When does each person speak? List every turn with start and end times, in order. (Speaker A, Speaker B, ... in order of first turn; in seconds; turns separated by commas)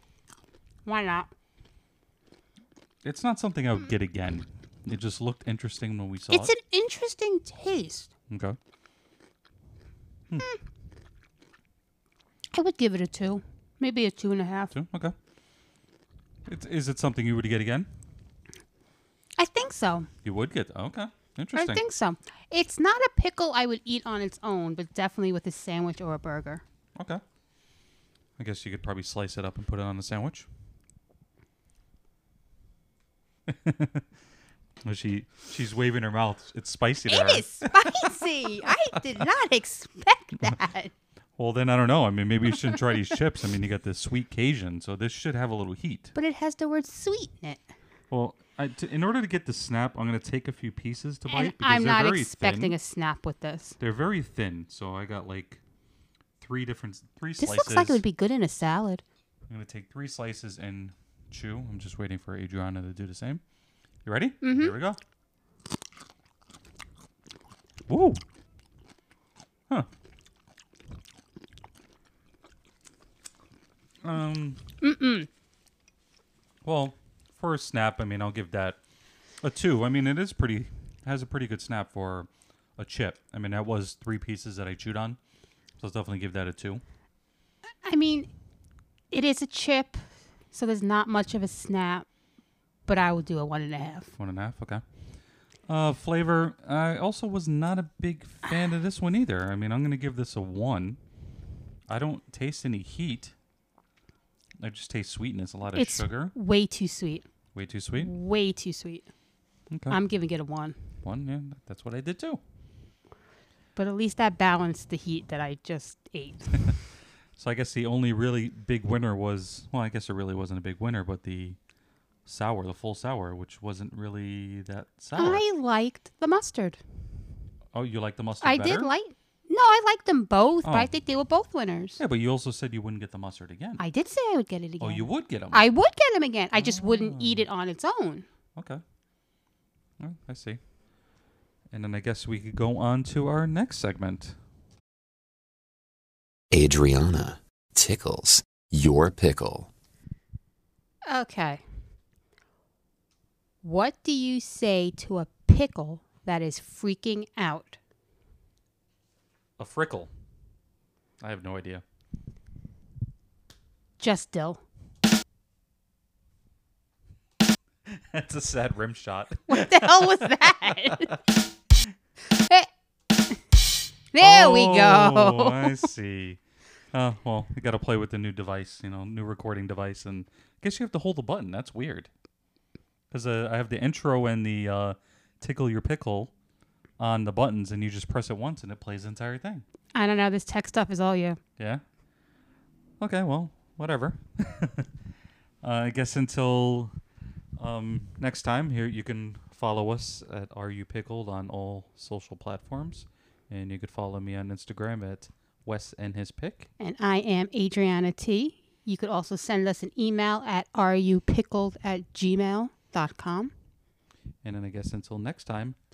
Speaker A: 0.8-1.3, Speaker B: 3.0-6.5, Speaker A: 6.3-8.1, Speaker B: 8.3-8.6, Speaker A: 12.5-14.7, Speaker B: 14.7-15.1, Speaker B: 16.5-17.9, Speaker A: 19.4-20.1, Speaker B: 20.2-21.8, Speaker A: 21.5-26.6, Speaker B: 28.4-30.5, Speaker B: 33.5-34.0, Speaker B: 34.8-38.1, Speaker A: 37.1-40.9, Speaker B: 41.4-46.1, Speaker A: 46.1-47.6, Speaker B: 48.1-52.7, Speaker A: 51.3-53.8, Speaker B: 53.8-55.6, Speaker B: 56.4-58.0, Speaker A: 57.4-59.0, Speaker B: 59.5-63.4, Speaker B: 64.0-65.0, Speaker A: 64.4-64.8, Speaker B: 67.9-68.2, Speaker B: 74.0-74.6, Speaker A: 74.8-75.3, Speaker B: 76.6-78.8, Speaker B: 79.4-85.2, Speaker B: 85.8-86.8, Speaker A: 87.8-88.3, Speaker A: 89.1-90.0, Speaker A: 90.5-92.0, Speaker A: 92.8-94.1, Speaker B: 94.1-94.8, Speaker B: 95.7-101.0, Speaker B: 101.9-103.3, Speaker B: 104.6-106.3, Speaker A: 105.7-107.2, Speaker B: 107.5-108.1, Speaker A: 108.0-109.1, Speaker B: 109.7-110.0, Speaker A: 109.9-110.8, Speaker B: 111.0-112.4, Speaker A: 113.7-116.8, Speaker B: 117.4-121.6, Speaker B: 122.2-125.4, Speaker A: 125.1-126.8, Speaker B: 127.7-128.9, Speaker A: 128.4-132.0, Speaker B: 130.6-130.9, Speaker B: 132.0-133.8, Speaker A: 133.8-138.2, Speaker B: 134.8-135.7, Speaker B: 136.5-137.5, Speaker B: 140.0-140.6, Speaker B: 141.7-144.3, Speaker C: 146.5-149.7, Speaker A: 151.1-151.6, Speaker A: 153.6-157.8, Speaker B: 159.6-160.1, Speaker B: 161.2-161.8, Speaker A: 164.0-164.6, Speaker B: 167.9-171.1, Speaker A: 169.5-171.1, Speaker A: 172.3-172.7, Speaker A: 174.1-175.9, Speaker B: 174.2-176.4, Speaker B: 176.9-182.1, Speaker B: 183.1-186.3, Speaker B: 187.0-189.6, Speaker A: 189.9-191.4, Speaker B: 193.0-194.9, Speaker B: 195.6-196.9, Speaker B: 197.6-206.7, Speaker A: 206.8-213.5, Speaker B: 214.4-215.8